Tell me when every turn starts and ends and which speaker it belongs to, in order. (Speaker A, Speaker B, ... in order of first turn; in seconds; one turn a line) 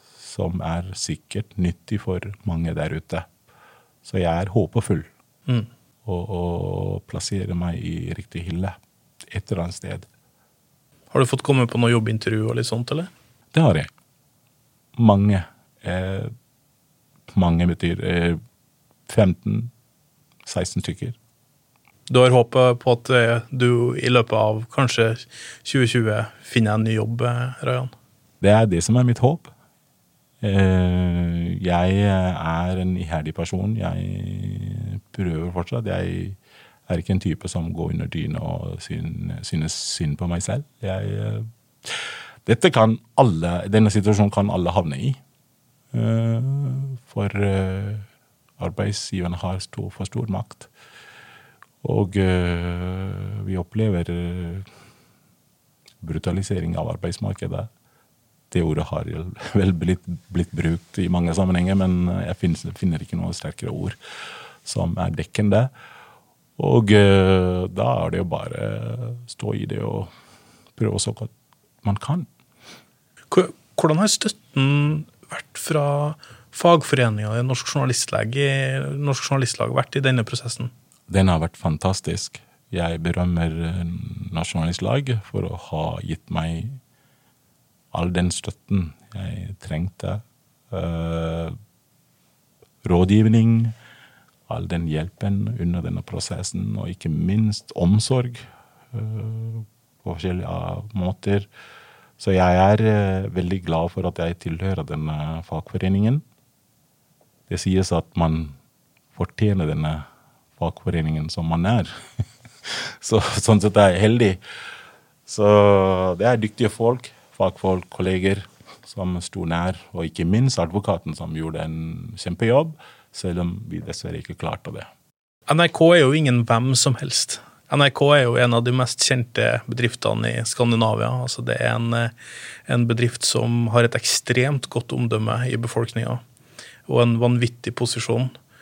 Speaker A: 0.2-3.3
Speaker A: 4.0-5.1
Speaker A: 6.0-8.8
Speaker A: 9.3-10.1
Speaker B: 11.1-13.1
Speaker A: 13.5-13.9
Speaker A: 14.9-16.3
Speaker A: 17.3-18.4
Speaker A: 19.1-19.7
Speaker A: 20.4-21.1
Speaker B: 22.1-27.9
Speaker A: 28.4-29.5
Speaker A: 30.4-45.2
Speaker A: 45.9-48.0
Speaker A: 48.6-50.7
Speaker A: 51.8-54.6
Speaker A: 56.0-57.7
Speaker A: 58.5-64.0
Speaker A: 64.6-65.7
Speaker A: 66.6-70.1
Speaker A: 70.8-71.3
Speaker A: 71.8-72.3
Speaker B: 73.3-80.7
Speaker A: 81.1-86.8
Speaker A: 87.9-91.6
Speaker A: 92.8-93.8
Speaker A: 94.5-101.5
Speaker A: 102.2-106.2
Speaker A: 107.5-108.6
Speaker A: 109.1-110.1
Speaker A: 110.6-111.9
Speaker A: 112.7-114.4
Speaker A: 115.3-124.9
Speaker B: 125.5-132.1
Speaker B: 132.7-136.2
Speaker B: 136.9-138.3